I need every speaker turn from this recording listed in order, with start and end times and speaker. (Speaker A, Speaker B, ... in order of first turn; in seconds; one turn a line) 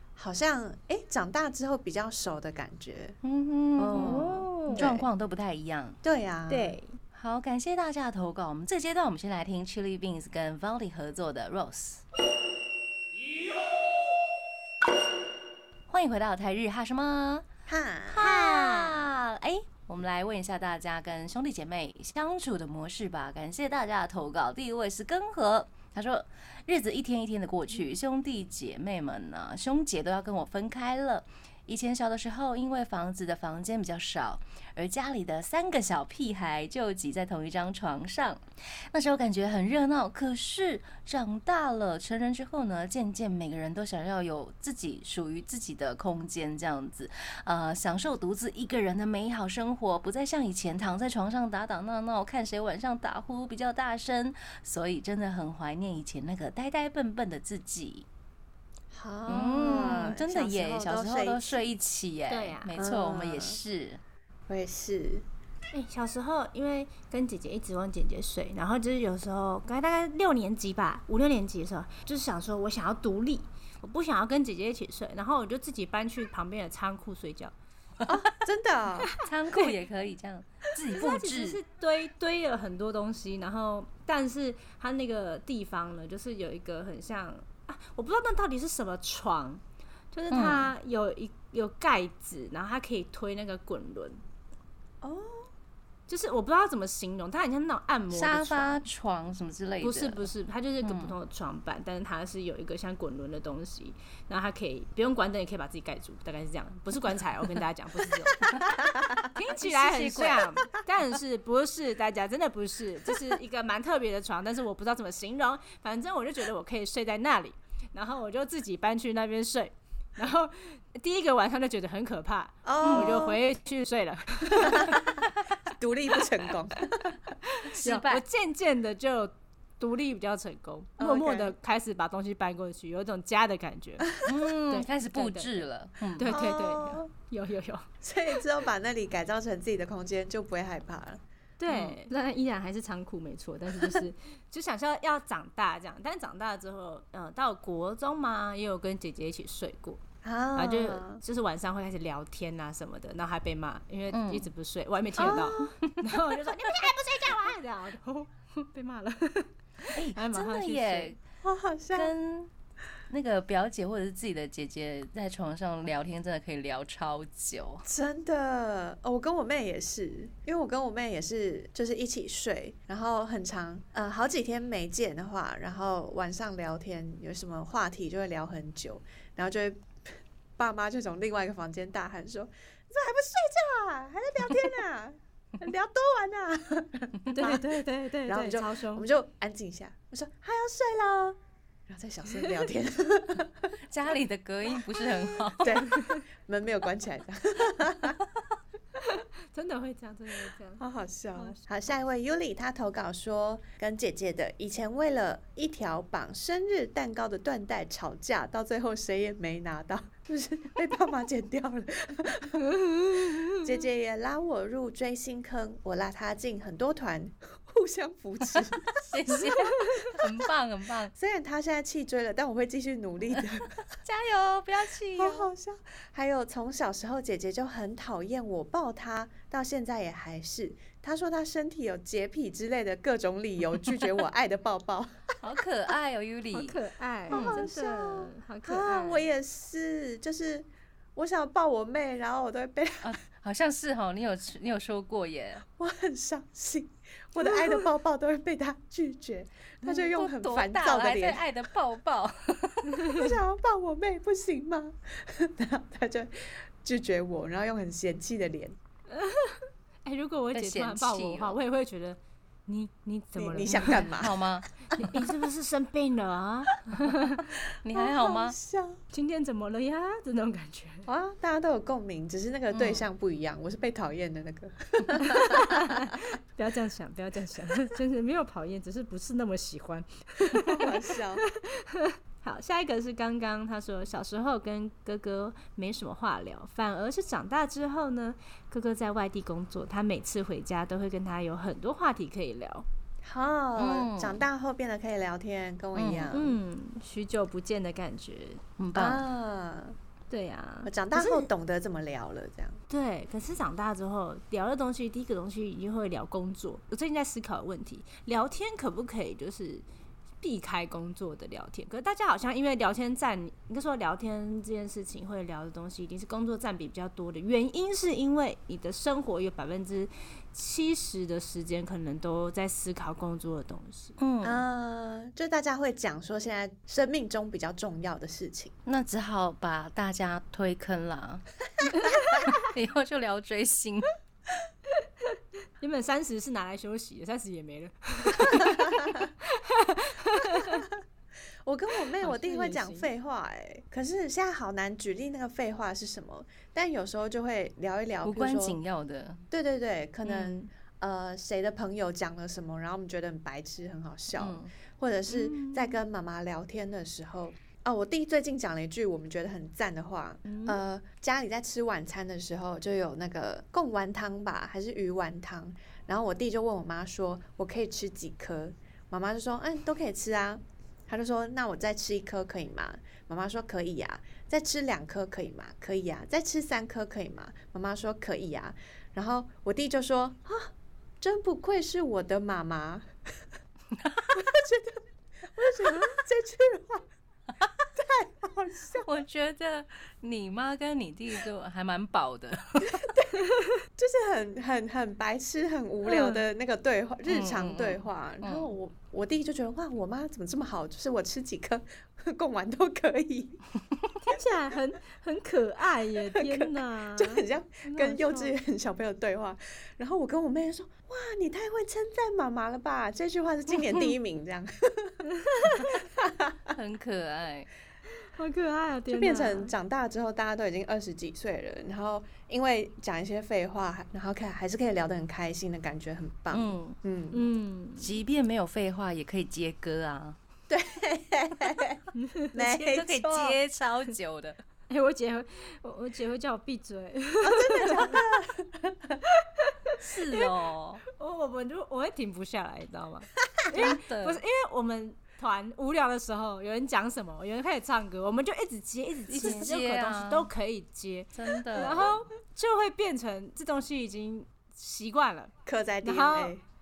Speaker A: 0.1-3.2
Speaker B: 3.2-6.0
Speaker A: 3.8-5.1
Speaker C: 3.9-4.9
Speaker A: 6.0-6.8
Speaker C: 6.5-6.9
Speaker B: 7.1-12.0
Speaker B: 15.9-17.4
Speaker A: 17.6-18.3
Speaker B: 18.1-58.0
Speaker C: 18.2-19.0
Speaker A: 58.9-61.6
Speaker B: 59.3-64.0
Speaker C: 62.3-62.8
Speaker A: 62.8-63.6
Speaker A: 64.5-65.2
Speaker C: 65.7-77.5
Speaker A: 78.0-79.1
Speaker B: 79.2-81.6
Speaker C: 80.9-89.6
Speaker C: 90.1-94.2
Speaker B: 90.3-90.7
Speaker A: 95.0-95.5
Speaker C: 96.1-98.8
Speaker B: 98.1-100.3
Speaker C: 99.8-108.6
Speaker B: 100.8-101.1
Speaker C: 109.3-125.2
Speaker B: 109.5-110.6
Speaker A: 122.6-123.4
Speaker B: 122.8-123.2
Speaker A: 124.6-125.1
Speaker A: 125.7-127.2
Speaker C: 127.5-134.1
Speaker B: 127.8-128.2
Speaker A: 131.0-131.5
Speaker B: 134.2-136.4
Speaker C: 134.7-135.6
Speaker C: 136.2-137.9
Speaker A: 136.3-137.1
Speaker A: 138.0-141.2
Speaker C: 141.6-150.0
Speaker B: 141.7-142.0
Speaker A: 150.2-151.2
Speaker C: 150.5-161.1
Speaker B: 154.1-154.5
Speaker A: 155.2-155.7
Speaker B: 155.2-156.0
Speaker B: 159.9-161.2
Speaker A: 161.4-162.1
Speaker B: 161.9-162.5
Speaker B: 163.1-167.8
Speaker A: 167.9-187.7
Speaker C: 187.3-189.1
Speaker A: 188.2-193.7
Speaker B: 193.9-196.0
Speaker A: 195.0-198.2
Speaker C: 195.9-196.2
Speaker C: 199.0-200.8
Speaker A: 200.8-212.6
Speaker C: 201.3-201.7
Speaker C: 212.7-213.3
Speaker A: 213.5-219.5
Speaker B: 218.5-221.1
Speaker C: 219.3-220.1
Speaker A: 221.1-223.7
Speaker B: 223.9-225.5
Speaker A: 225.1-235.3
Speaker B: 235.4-237.6
Speaker C: 236.5-239.2
Speaker A: 237.3-243.2
Speaker B: 243.0-245.6
Speaker A: 245.8-251.4
Speaker B: 249.8-253.2
Speaker A: 253.1-258.8
Speaker C: 259.1-264.1
Speaker B: 260.5-261.6
Speaker A: 263.4-264.4
Speaker B: 263.9-265.3
Speaker C: 264.9-267.5
Speaker B: 267.7-268.6
Speaker A: 267.9-269.0
Speaker C: 269.1-271.1
Speaker A: 271.1-275.9
Speaker B: 272.7-273.1
Speaker C: 275.4-280.9
Speaker A: 280.5-281.4
Speaker C: 281.5-292.9
Speaker A: 293.2-296.6
Speaker B: 293.8-294.4
Speaker B: 295.9-296.3
Speaker C: 296.3-298.6
Speaker B: 298.8-299.2
Speaker A: 298.9-300.0
Speaker C: 300.3-301.5
Speaker A: 300.9-302.8
Speaker C: 302.9-309.9
Speaker C: 310.4-324.1
Speaker B: 324.2-324.6
Speaker A: 324.4-328.7
Speaker B: 328.9-334.1
Speaker C: 335.3-340.9
Speaker A: 338.6-339.1
Speaker A: 340.7-341.0
Speaker A: 341.6-348.8
Speaker C: 342.2-343.1
Speaker B: 348.2-349.4
Speaker A: 349.5-383.1
Speaker B: 350.2-350.6
Speaker B: 354.4-354.7
Speaker C: 355.3-356.0
Speaker C: 360.4-360.8
Speaker B: 384.0-384.4
Speaker A: 384.3-385.0
Speaker A: 385.5-387.1
Speaker C: 385.9-386.1
Speaker A: 387.9-389.1
Speaker B: 389.0-393.1
Speaker A: 392.8-393.4
Speaker A: 394.0-403.6
Speaker C: 396.0-396.4
Speaker B: 397.3-398.7
Speaker C: 404.2-408.5
Speaker A: 406.3-416.7
Speaker C: 415.4-415.7
Speaker B: 416.7-417.7
Speaker C: 418.3-419.7
Speaker A: 419.1-427.4
Speaker B: 426.5-426.9
Speaker C: 427.3-428.1
Speaker B: 428.0-430.4
Speaker A: 430.7-433.6
Speaker C: 432.1-432.5
Speaker B: 432.5-434.6
Speaker C: 434.9-438.2
Speaker A: 437.4-439.2
Speaker C: 439.3-439.9
Speaker B: 440.0-441.0
Speaker C: 441.1-455.5
Speaker B: 443.7-444.4
Speaker B: 449.3-450.5
Speaker B: 451.4-452.2
Speaker A: 455.6-456.6
Speaker C: 456.0-456.5